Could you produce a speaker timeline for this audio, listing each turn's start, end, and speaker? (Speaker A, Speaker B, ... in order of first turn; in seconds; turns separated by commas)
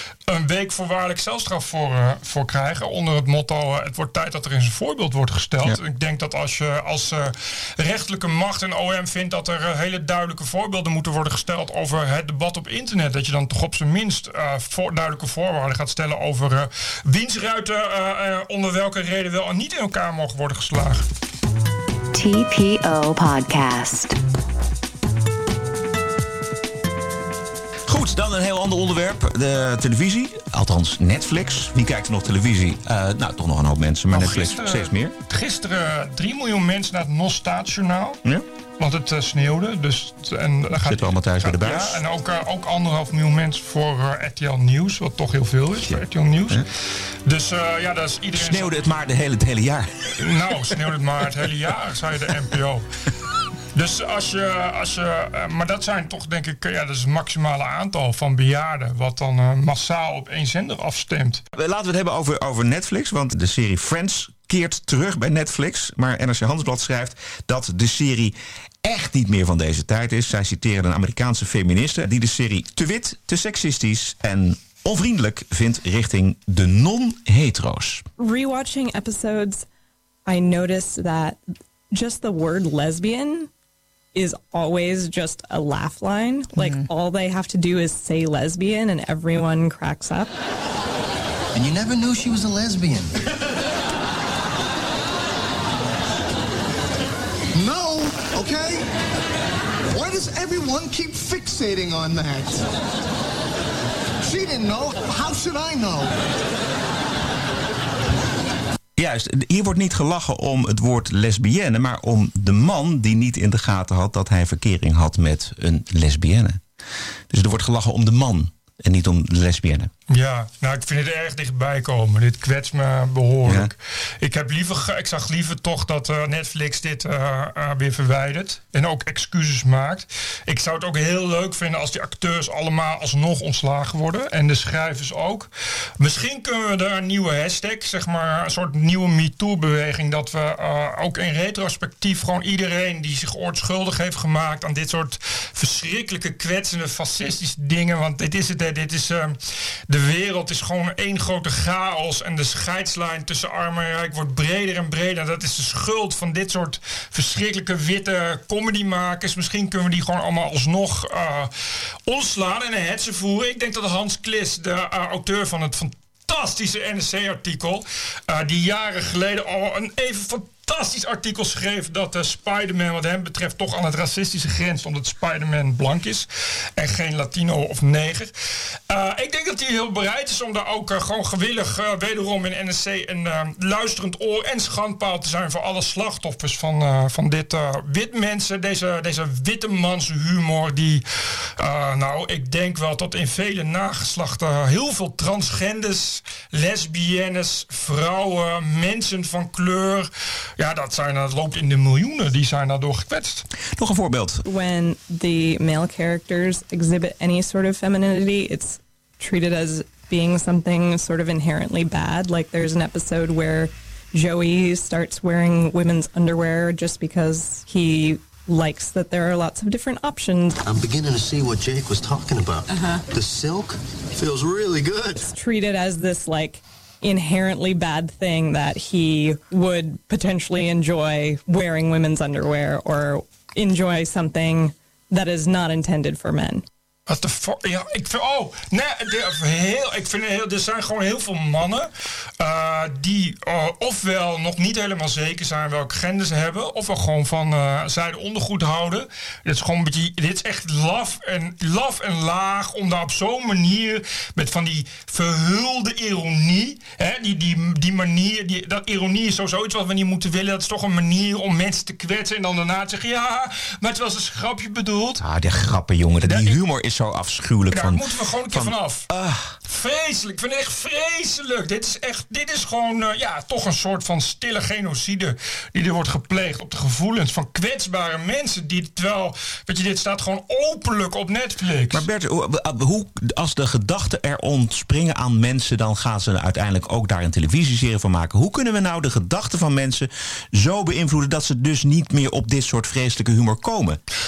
Speaker A: 0.3-21.1, Speaker B: 22.1-24.2, Speaker C: 27.9-35.1, Speaker A: 34.1-38.2, Speaker A: 38.8-46.6, Speaker C: 40.8-42.0, Speaker C: 45.8-46.6, Speaker A: 47.2-48.9, Speaker C: 48.4-50.2, Speaker A: 50.2-52.9, Speaker A: 53.7-61.4, Speaker C: 61.5-78.0, Speaker D: 78.2-79.7, Speaker D: 80.2-81.4, Speaker D: 81.9-83.5, Speaker D: 84.1-90.3, Speaker E: 91.5-93.1, Speaker F: 97.5-98.9, Speaker F: 99.9-102.7, Speaker F: 104.2-106.2, Speaker C: 109.0-116.6, Speaker C: 117.3-119.9, Speaker A: 120.1-149.4, Speaker C: 123.5-123.7, Speaker A: 149.9-161.5, Speaker A: 162.1-178.3, Speaker A: 178.9-191.0, Speaker A: 191.6-203.5, Speaker C: 203.8-204.4, Speaker D: 204.5-220.6, Speaker E: 220.6-225.2, Speaker D: 225.3-236.6, Speaker A: 237.1-241.9, Speaker A: 242.4-265.2, Speaker C: 265.2-269.6, Speaker A: 266.2-266.6, Speaker A: 267.7-269.1, Speaker A: 269.7-282.0, Speaker C: 281.9-294.0